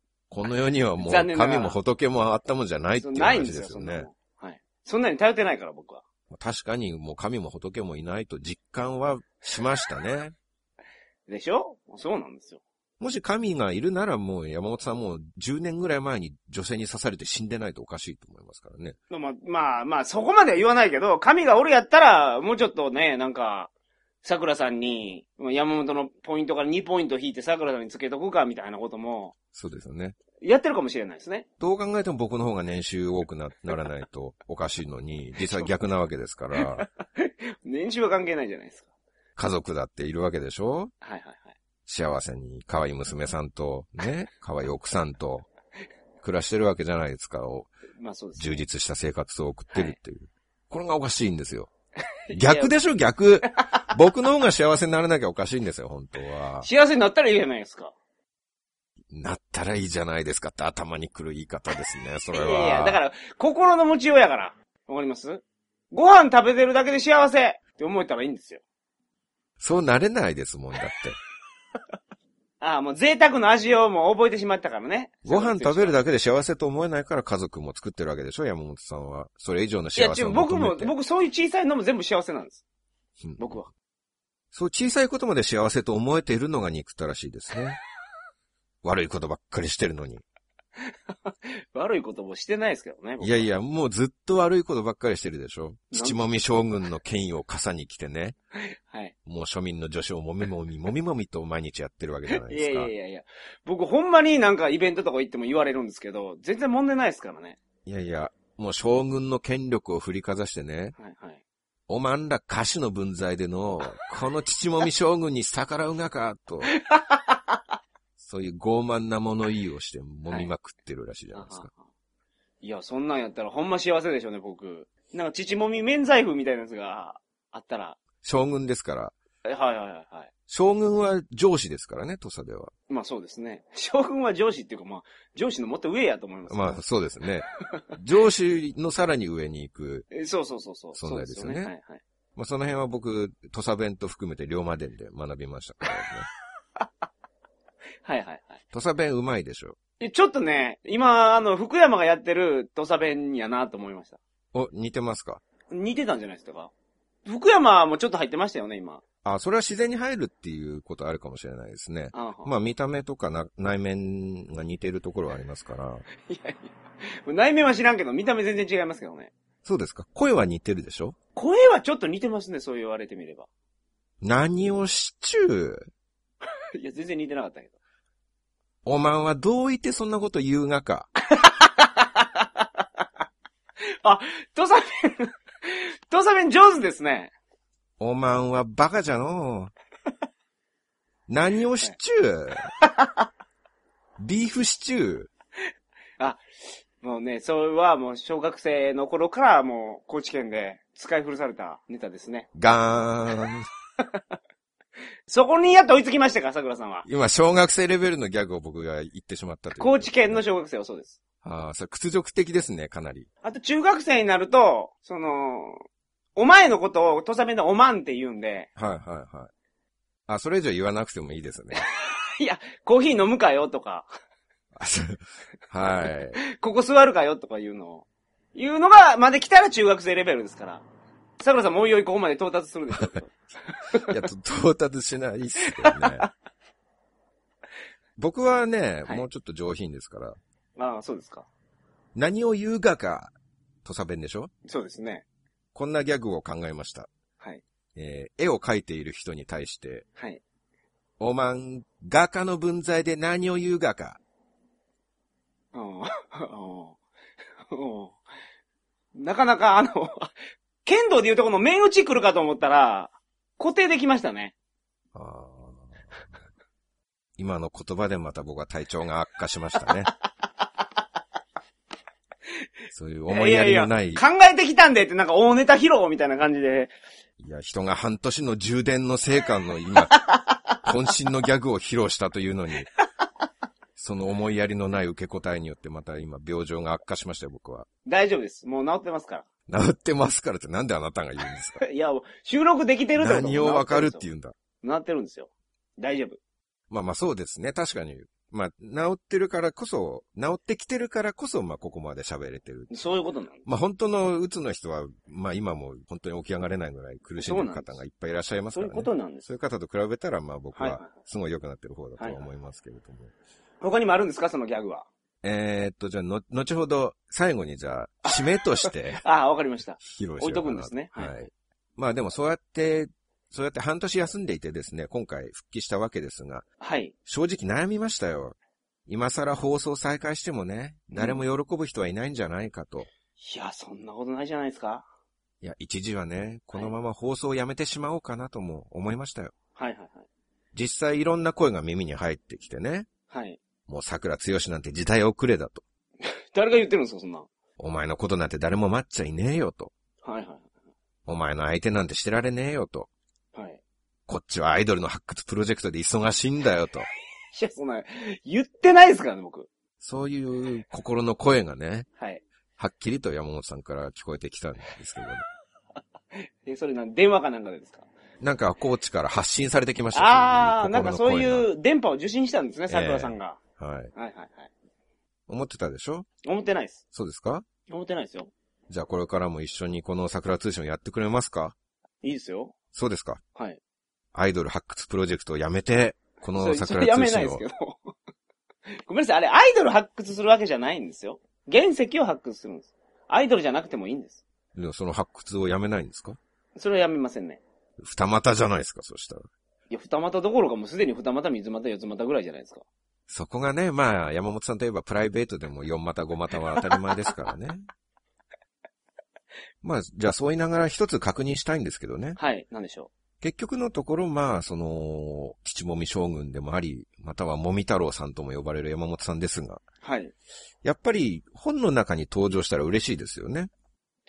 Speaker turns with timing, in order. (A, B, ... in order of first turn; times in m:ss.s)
0:00.3-0:04.1 A
0:01.0-0:01.8 B
0:03.0-0:06.0 B
0:06.3-0:10.3 A
0:11.3-0:12.6 B
0:13.0-0:19.0 A
0:19.1-0:23.7 B
0:24.2-0:29.3 B
0:29.5-0:30.2 A
0:30.4-0:31.4 B
0:31.6-0:36.9 A
0:36.6-0:38.9 B
0:39.4-0:40.9 A
0:41.0-0:41.5 B
0:41.8-0:45.5 A
0:46.2-0:47.7 A
0:48.0-0:48.6 B
0:48.4-0:51.7 A
0:49.7-0:50.0 B
0:52.3-0:52.7 B
0:52.3-0:56.7 A
0:56.6-0:57.9 B
0:59.1-1:03.0 A
1:02.3-1:08.6 B
1:09.6-1:11.2 A
1:12.6-1:16.0 B
1:15.2-1:20.9 A
1:20.0-1:22.6 B
1:23.2-1:23.5 A
1:23.4-1:23.7 B
1:24.5-1:27.8 A
1:28.8-1:30.2 A
1:31.2-1:33.5 B
1:33.2-1:38.4 A
1:35.9-1:36.2 B
1:38.6-1:39.1 B
1:39.2-1:42.9 A
1:42.3-1:47.6 B
1:47.8-1:50.9 A
1:51.0-1:51.4 B
1:51.9-1:56.7 A
1:56.8-1:57.5 B
1:58.2-2:01.7 A
2:01.3-2:01.8 B
2:02.6-2:08.0 B
2:08.2-2:09.1 A
2:09.4-2:10.3 B
2:10.5-2:12.7 A
2:12.9-2:16.8 B
2:16.5-2:20.1 A
2:20.1-2:22.0 B
2:20.9-2:21.7 A
2:22.4-2:26.3 A
2:28.0-2:28.6 B
2:28.7-2:29.8 A
2:30.0-2:34.2 B
2:34.5-2:35.4 A
2:35.7-2:36.7 B
2:37.2-2:39.0 B
2:39.2-2:46.0 A
2:42.1-2:42.5 B
2:46.3-2:49.3 B
2:49.6-2:51.2 A
2:51.4-2:53.5 B
2:54.2-2:55.9 A
2:56.8-2:57.7 B
2:58.8-3:01.1 A
3:01.3-3:02.5 B
3:04.0-3:07.3 B
3:08.0-3:09.7 A
3:11.3-3:12.7 A
3:12.9-3:13.1 B
3:14.2-3:15.3 A
3:17.0-3:22.5 B
3:22.5-3:23.6 A
3:25.3-3:27.0 B
3:27.0-3:30.4 A
3:29.8-3:31.2 B
3:31.4-3:33.3 A
3:33.4-3:35.8 B
3:36.4-3:38.7 B
3:38.8-3:39.5 A
3:40.3-3:41.8 A
3:41.8-3:44.1 B
3:44.8-3:46.4 A
3:46.4-3:50.8 B
3:51.4-3:54.1 B
3:54.0-3:56.3 A
3:55.8-3:56.3 B
3:58.2-4:00.4 A
4:00.8-4:01.5 B
4:02.1-4:03.3 A
4:03.8-4:04.5 A
4:04.6-4:05.2 B
4:05.7-4:07.1 A
4:07.9-4:10.0 A
4:10.2-4:10.4 B
4:11.2-4:14.2 A
4:15.7-4:17.0 B
4:17.7-4:18.2 B
4:19.1-4:20.3 B
4:20.8-4:24.5 B
4:25.1-4:26.2 A
4:27.4-4:30.1 A
4:32.9-4:34.2 A
4:33.3-4:36.9 B
4:37.4-4:40.2 A
4:40.1-4:40.8 B
4:40.8-4:42.9 A
4:44.0-4:47.9 A
4:48.0-4:49.4 B
4:49.7-4:51.8 A
4:51.8-4:54.2 B
4:53.2-4:54.5 A
4:54.8-4:56.4 B
4:56.9-5:02.9 A
5:02.9-5:03.6 B
5:03.6-5:13.3 A
5:07.4-5:08.0 B
5:08.7-5:09.5 B
5:10.7-5:11.1 B
5:12.2-5:12.4 B
5:13.8-5:15.0 B
5:15.4-5:19.2 A
5:18.8-5:21.4 B
5:20.0-5:26.6 A
5:26.8-5:27.1 B
5:27.2-5:28.5 A
5:29.1-5:33.1 A
5:31.1-5:31.4 B
5:33.4-5:35.0 B
5:35.6-5:39.5 A
5:39.8-5:40.2 B
5:40.7-5:43.1 A
5:43.3-5:43.6 B
5:43.9-5:45.8 A
5:46.2-5:47.5 B
5:47.8-5:49.9 A
5:50.2-5:50.6 B
5:51.2-5:53.1 A
5:53.5-5:53.8 B
5:54.3-5:57.1 A
5:57.5-5:59.7 B
6:00.0-6:02.1 A
6:02.2-6:02.4 B
6:02.8-6:05.4 A
6:06.3-6:08.1 B
6:08.4-6:11.7 A
6:10.1-6:13.6 B
6:12.9-6:14.1 A
6:14.1-6:14.7 B
6:15.5-6:16.3 A
6:16.4-6:17.0 B
6:17.1-6:17.6 A
6:17.9-6:18.5 B
6:18.9-6:21.7 A
6:22.2-6:22.7 B
6:22.9-6:23.4 A
6:24.3-6:27.6 A
6:26.5-6:28.1 B
6:28.9-6:34.4 B
6:34.7-6:36.4 A
6:36.8-6:37.6 B
6:38.0-6:39.5 A
6:39.9-6:42.8 B
6:43.3-6:47.9 A
6:49.8-6:52.4 A
6:52.4-6:53.1 B
6:53.4-6:59.8 A
7:00.0-7:00.3 B
7:00.8-7:03.7 A